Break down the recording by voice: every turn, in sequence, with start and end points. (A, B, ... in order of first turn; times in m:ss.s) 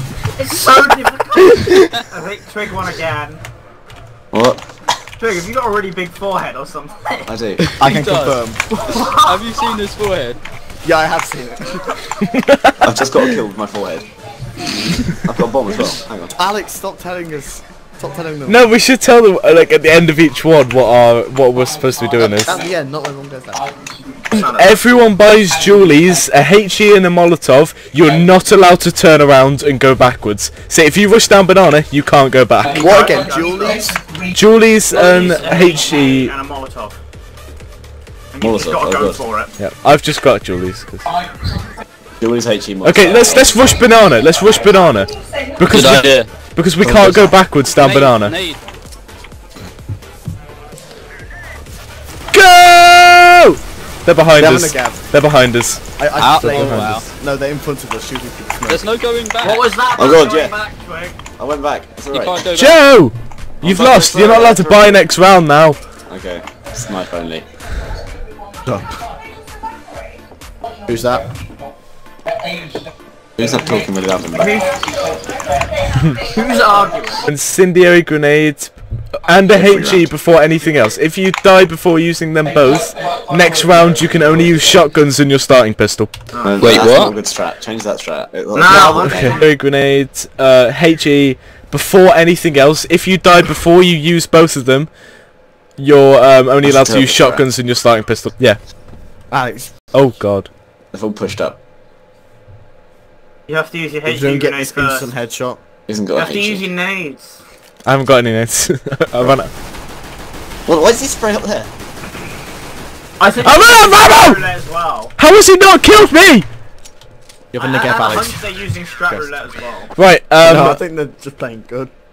0:00.4-0:03.4 A
0:04.3-0:04.6 B
0:05.2-0:07.3 A
0:07.3-0:07.6 B
0:07.8-0:08.4 C
0:07.8-0:09.1 D
0:08.9-0:09.4 A
0:09.1-0:10.4 C
0:10.8-0:12.0 D
0:12.3-0:12.8 E
0:12.8-0:14.1 B
0:15.0-0:16.4 B
0:16.4-0:18.7 D
0:18.5-0:22.6 E
0:22.2-0:23.7 D
0:24.3-0:33.0 E
0:24.3-0:24.8 A
0:32.7-0:33.7 A
0:32.7-0:33.9 D
0:34.2-0:36.3 E
0:34.9-0:37.0 A
0:38.3-0:39.5 A
0:38.4-0:39.2 B
0:39.6-0:41.1 E
0:42.2-0:43.7 B
0:42.8-0:48.4 E
0:45.7-0:46.3 C
0:46.8-0:47.3 D
0:47.5-0:48.6 C
0:52.3-0:56.9 E
0:54.3-0:55.0 D
0:56.0-0:58.9 D
0:56.2-0:57.0 C
0:58.7-0:59.7 C
0:59.4-1:01.2 A
1:00.0-1:00.6 B
1:01.4-1:02.5 B
1:02.1-1:02.8 C
1:02.5-1:05.8 E
1:03.6-1:05.1 B
1:06.1-1:07.4 B
1:08.6-1:08.9 D
1:10.9-1:11.3 D
1:13.4-1:14.6 B
1:14.4-1:14.9 A
1:16.2-1:17.3 A
1:17.2-1:26.1 E
1:19.5-1:20.1 B
1:26.3-1:26.9 A
1:26.4-1:29.4 B
1:26.6-1:27.1 C
1:28.5-1:29.5 A
1:28.9-1:35.0 E
1:35.8-1:38.6 E
1:36.6-1:37.5 B
1:39.3-1:39.7 D
1:39.9-1:40.5 E
1:40.9-1:41.6 B
1:43.5-1:45.1 A
1:44.0-1:45.6 D
1:45.9-1:46.6 B
1:46.1-1:47.4 A
1:47.8-1:49.5 E
1:50.6-1:51.7 B
1:53.2-1:55.1 A
1:53.4-1:54.4 E
1:55.2-1:56.4 E
1:57.5-1:59.3 D
1:57.6-1:59.9 A
2:00.0-2:00.8 E
2:00.4-2:01.9 D